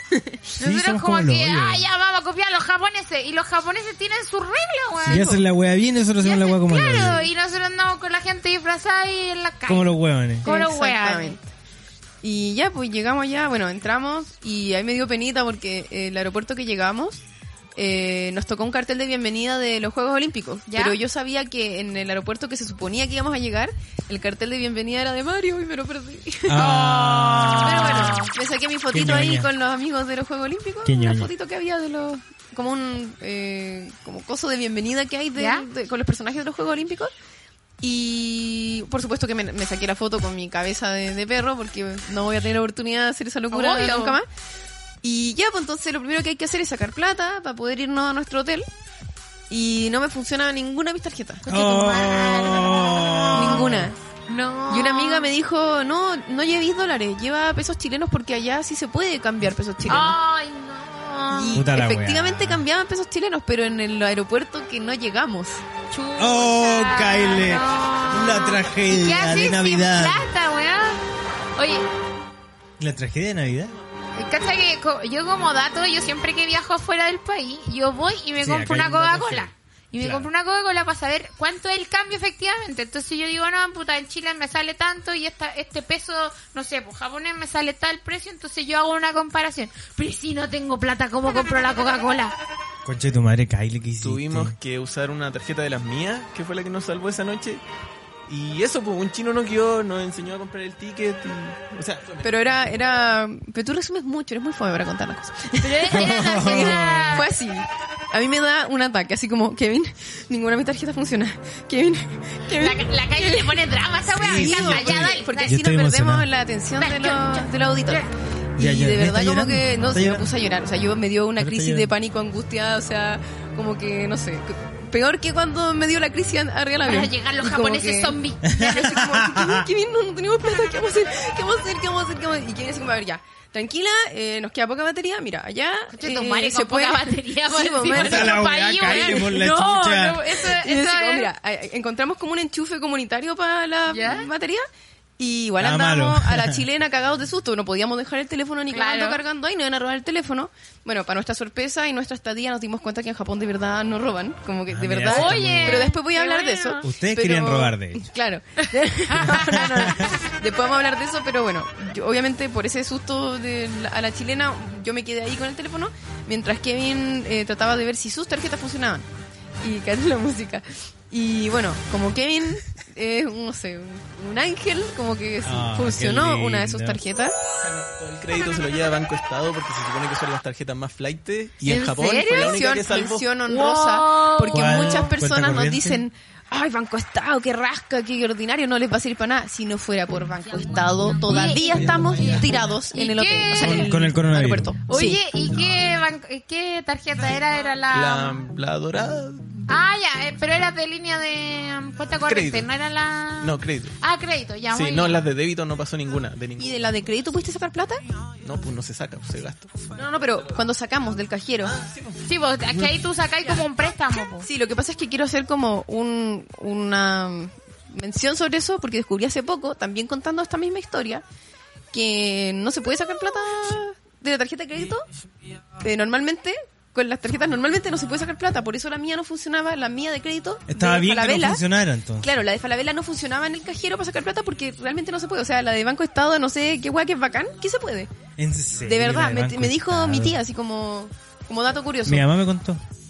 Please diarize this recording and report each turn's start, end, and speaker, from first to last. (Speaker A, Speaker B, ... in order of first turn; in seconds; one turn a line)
Speaker A: 0.1-0.4
Speaker B: 0.6-5.4
Speaker C: 0.6-1.9
Speaker A: 5.0-5.4
Speaker C: 5.0-7.3
Speaker B: 6.2-11.4
Speaker C: 9.7-10.5
Speaker A: 10.4-11.4
Speaker A: 12.2-17.2
Speaker A: 17.8-26.6
Speaker B: 20.7-21.0
Speaker C: 26.4-28.2
Speaker B: 26.6-28.3
Speaker A: 27.6-37.1
Speaker C: 28.9-29.5
Speaker C: 30.8-31.3
Speaker B: 35.4-35.7
Speaker A: 37.8-44.2
Speaker B: 43.5-44.2
Speaker A: 45.0-48.7
Speaker A: 49.5-51.5
Speaker B: 51.4-53.7
Speaker C: 51.5-53.9
Speaker A: 53.3-54.0
Speaker B: 54.3-55.3
Speaker A: 54.7-60.1
Speaker B: 59.9-61.6
Speaker A: 61.3-65.6
Speaker C: 61.5-62.6
Speaker B: 65.9-71.0
Speaker C: 66.2-70.2
Speaker B: 71.5-71.8
Speaker C: 72.8-73.7
Speaker B: 74.2-92.3
Speaker C: 78.4-80.3
Speaker C: 92.8-94.5
Speaker D: 94.0-97.6
Speaker D: 98.3-103.0
Speaker A: 102.2-139.3
Speaker B: 105.6-107.3
Speaker C: 105.9-107.2
Speaker B: 112.5-115.6
Speaker C: 114.1-116.3
Speaker B: 116.8-118.1
Speaker C: 118.6-120.3
Speaker C: 121.4-121.9
Speaker B: 126.8-128.8
Speaker C: 128.5-129.7
Speaker B: 135.9-141.3
Speaker C: 137.9-140.2
Speaker A: 140.2-144.6
Speaker B: 143.9-144.3
Speaker A: 145.2-169.1
Speaker C: 145.6-146.6
Speaker B: 148.7-149.2
Speaker C: 154.7-155.9
Speaker B: 155.1-156.9
Speaker C: 156.8-158.1
Speaker B: 158.6-159.9
Speaker C: 159.2-160.1
Speaker A: 169.6-177.3
Speaker C: 175.4-177.0
Speaker D: 177.6-183.3
Speaker B: 181.6-182.6
Speaker A: 182.3-195.2
Speaker B: 183.4-185.1
Speaker C: 184.5-186.0
Speaker B: 191.2-193.9
Speaker C: 193.6-194.7
Speaker B: 194.9-198.4
Speaker D: 197.9-199.7
Speaker B: 199.7-205.2
Speaker D: 202.3-202.7
Speaker D: 203.4-203.9
Speaker D: 204.7-206.8
Speaker A: 206.6-208.0
Speaker D: 208.4-210.7
Speaker A: 209.9-211.8
Speaker D: 211.6-212.9
Speaker B: 212.2-214.5
Speaker A: 214.4-221.2
Speaker A: 221.9-225.1
Speaker A: 225.8-231.6
Speaker C: 230.7-232.3
Speaker A: 232.2-238.1
Speaker C: 238.4-240.4
Speaker A: 238.8-242.3
Speaker C: 242.1-242.8